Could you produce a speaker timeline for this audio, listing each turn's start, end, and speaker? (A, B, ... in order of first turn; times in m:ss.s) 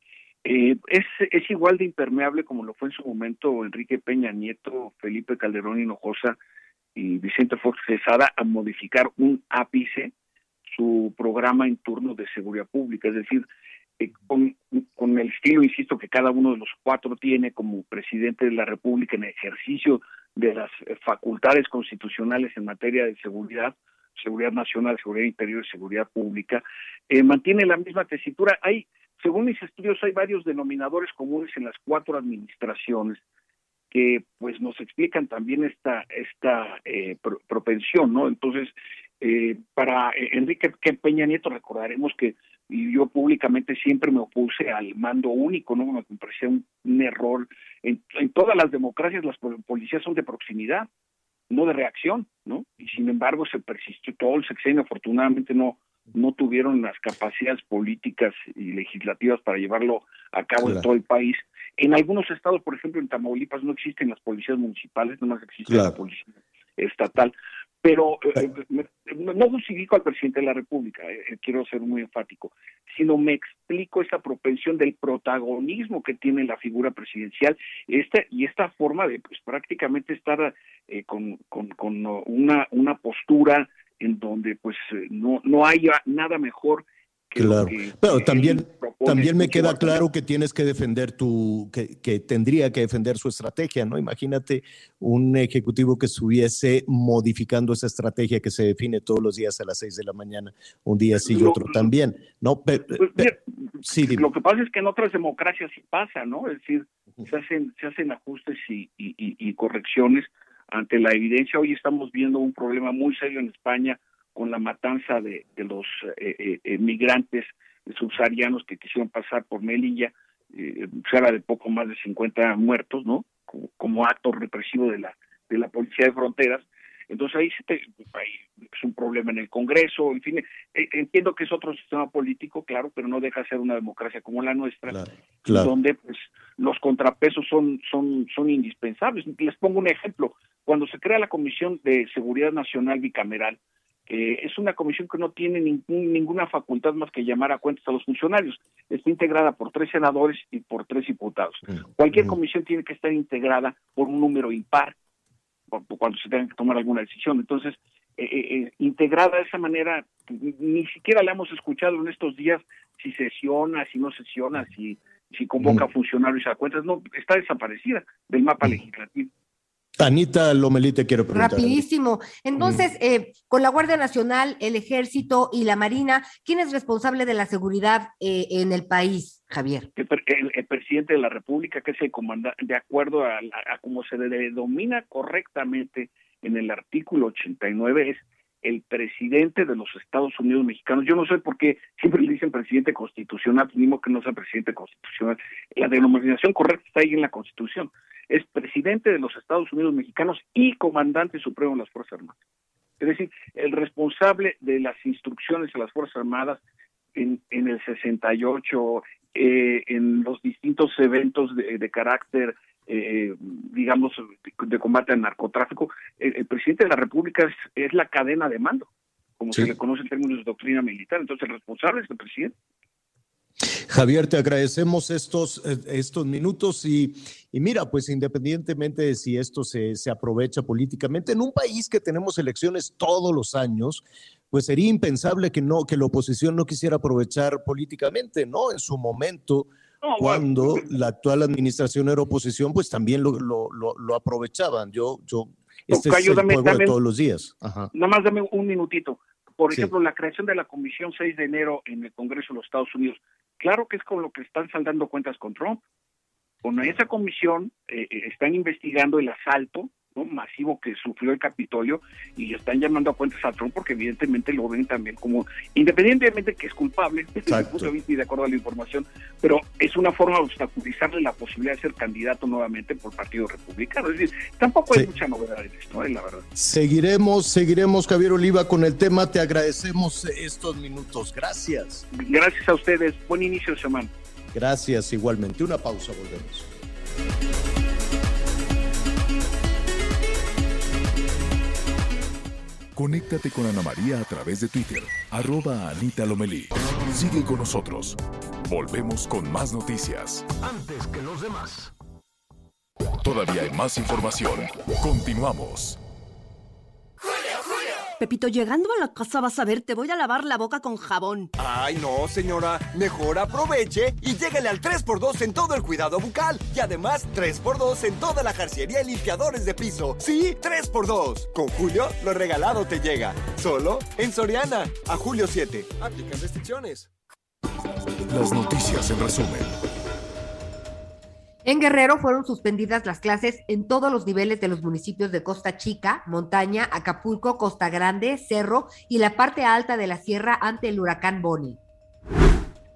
0:00.4-0:06.4 A
0:06.9-0:10.1 A
0:10.7-0:13.4 A
0:14.0-0:33.2 A
0:33.9-0:50.9 A
0:51.5-1:30.0 A
1:05.7-1:06.0 B
1:27.4-1:43.3 B
1:41.2-1:41.9 A
1:43.0-2:34.9 A
1:43.9-1:44.3 B
2:14.9-2:15.7 B
2:35.7-2:49.3 A
2:45.6-2:45.9 B
2:50.0-2:51.8 B
2:51.3-2:59.9 C
2:52.6-2:52.8 B
3:00.0-3:22.3 A
3:23.0-3:26.6 A
3:27.2-3:42.5 A
3:43.9-4:07.9 B
4:00.0-4:00.8 A
4:05.9-4:06.9 A
4:07.9-4:15.8 A
4:16.6-4:36.4 A
4:27.4-4:27.9 B
4:36.5-4:42.0 B
4:42.1-4:44.1 A
4:44.5-4:46.7 B
4:52.9-5:00.5 D
5:00.6-5:01.9 E
5:03.2-5:06.0 D
5:08.2-5:11.5 F
5:11.6-5:27.1 E
5:28.3-5:29.7 D
5:31.6-5:41.8 C